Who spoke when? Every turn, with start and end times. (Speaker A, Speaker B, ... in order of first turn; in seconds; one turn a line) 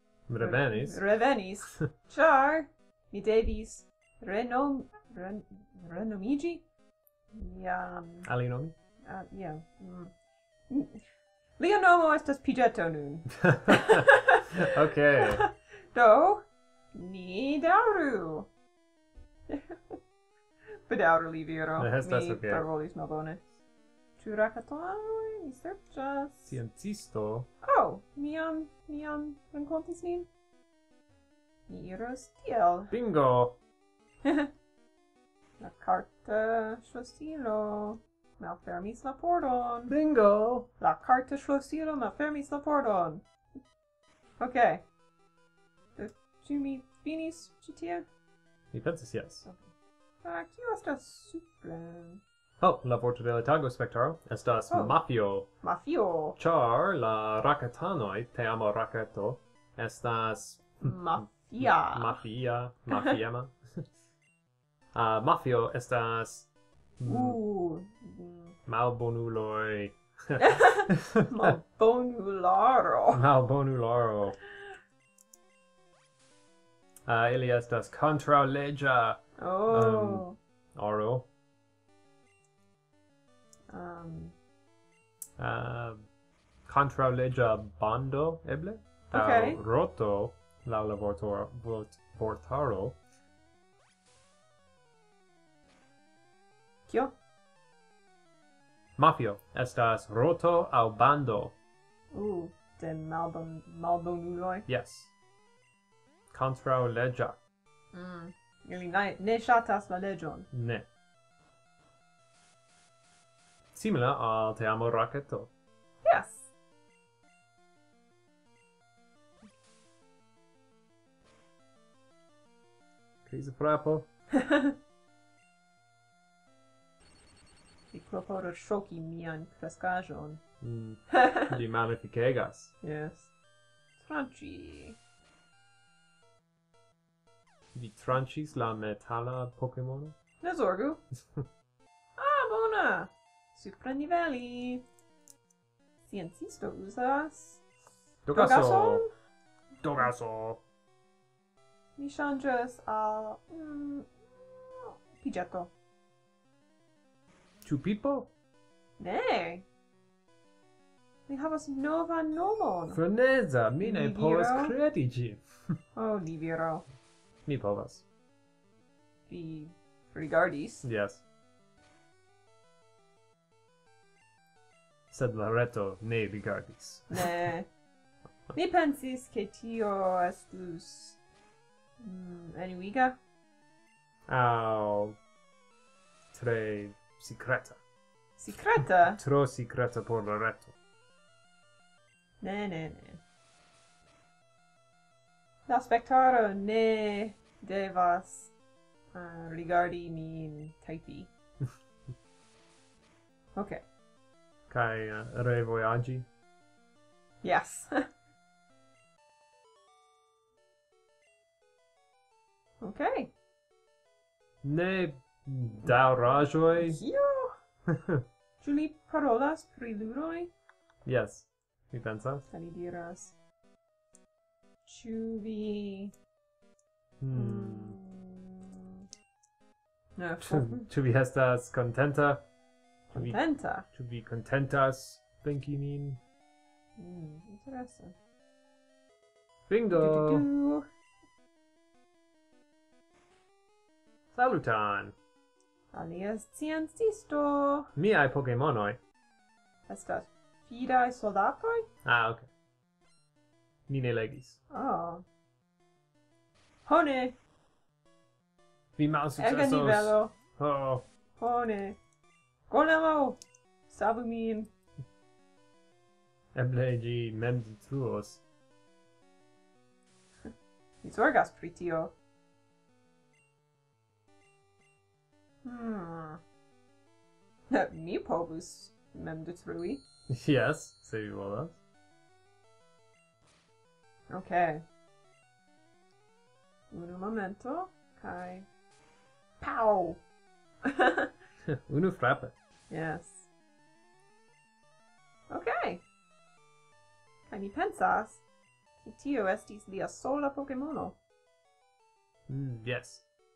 Speaker A: 0.3-1.0
Speaker B: 0.4-6.6
Speaker B: 7.3-8.3
Speaker A: 8.3-8.7
Speaker B: 9.1-10.1
Speaker B: 10.7-11.0
Speaker B: 11.6-14.4
Speaker A: 13.4-14.1
Speaker A: 14.6-15.4
Speaker B: 15.3-18.5
Speaker B: 19.5-20.0
Speaker B: 20.9-23.4
Speaker A: 21.8-22.7
Speaker B: 24.2-26.6
Speaker A: 26.5-27.5
Speaker B: 27.6-30.3
Speaker B: 31.7-32.9
Speaker A: 32.9-33.6
Speaker B: 35.6-40.0
Speaker A: 39.9-40.7
Speaker B: 40.8-43.2
Speaker B: 44.4-44.8
Speaker B: 46.0-48.1
Speaker A: 48.7-49.5
Speaker B: 49.4-49.7
Speaker B: 50.2-52.2
Speaker A: 52.6-55.5
Speaker B: 54.7-55.0
Speaker B: 55.6-56.4
Speaker A: 56.4-63.8
Speaker B: 60.8-62.2
Speaker B: 62.9-63.2
Speaker A: 64.9-66.5
Speaker A: 67.0-67.4
Speaker B: 67.1-68.6
Speaker A: 68.7-71.3
Speaker B: 70.4-73.2
Speaker A: 73.1-74.4
Speaker A: 77.1-81.3
Speaker B: 79.4-80.4
Speaker B: 83.7-84.3
Speaker A: 85.4-86.1
Speaker A: 86.7-93.0
Speaker B: 89.1-89.6
Speaker B: 96.9-97.1
Speaker A: 99.0-101.5
Speaker B: 102.1-104.7
Speaker A: 104.7-105.1
Speaker A: 106.3-107.4
Speaker B: 107.9-110.5
Speaker A: 110.5-110.9
Speaker A: 113.7-115.5
Speaker B: 116.0-116.5
Speaker A: 123.3-124.1
Speaker B: 124.4-124.7
Speaker B: 127.9-130.4
Speaker A: 130.6-132.7
Speaker B: 131.1-131.5
Speaker B: 132.8-133.3
Speaker B: 134.0-135.0
Speaker A: 137.7-140.2
Speaker B: 140.4-141.0
Speaker B: 142.2-144.8
Speaker B: 146.1-147.6
Speaker A: 148.2-149.0
Speaker B: 148.3-149.1
Speaker A: 149.8-150.6
Speaker B: 152.0-155.7
Speaker A: 157.6-158.3
Speaker B: 159.0-159.7
Speaker B: 161.3-163.0
Speaker A: 162.9-165.4
Speaker B: 163.8-164.7
Speaker B: 165.9-166.8
Speaker A: 167.5-168.0
Speaker B: 169.3-170.9
Speaker A: 170.8-171.2
Speaker A: 175.1-177.3
Speaker B: 177.1-177.7
Speaker B: 178.5-181.2
Speaker B: 182.0-183.2
Speaker A: 184.3-185.2
Speaker A: 186.3-187.8
Speaker B: 188.4-189.2
Speaker A: 189.1-190.8
Speaker B: 192.4-193.2
Speaker B: 195.7-198.5
Speaker B: 199.1-201.3
Speaker B: 203.6-203.8
Speaker A: 204.7-206.3
Speaker B: 207.4-207.9
Speaker B: 212.8-213.3
Speaker A: 214.6-217.0
Speaker B: 216.8-217.5
Speaker B: 218.6-220.5
Speaker A: 221.1-222.5
Speaker B: 222.5-223.3
Speaker B: 224.9-226.1
Speaker A: 227.2-228.0
Speaker B: 227.3-229.0
Speaker B: 230.2-230.9
Speaker A: 230.4-232.4
Speaker B: 233.1-233.9
Speaker A: 233.1-236.2
Speaker B: 237.0-238.2
Speaker A: 239.7-240.5
Speaker B: 239.9-240.8
Speaker A: 244.3-245.2
Speaker B: 245.9-247.9
Speaker A: 248.0-249.0
Speaker B: 249.9-251.9
Speaker A: 252.1-252.5
Speaker A: 253.9-254.6
Speaker B: 254.7-255.2
Speaker B: 256.9-257.4
Speaker A: 259.0-261.1
Speaker B: 259.4-260.3
Speaker B: 261.4-262.0
Speaker B: 262.7-264.7
Speaker A: 266.5-268.4
Speaker B: 271.0-272.1
Speaker B: 275.6-276.4
Speaker B: 277.7-280.0
Speaker A: 280.3-281.8
Speaker B: 284.3-284.8
Speaker B: 286.9-288.7
Speaker B: 289.6-290.2
Speaker B: 290.9-291.3
Speaker A: 291.7-292.5
Speaker B: 292.9-293.5
Speaker B: 295.5-296.0
Speaker B: 297.5-298.4
Speaker B: 299.0-301.2
Speaker A: 302.5-303.2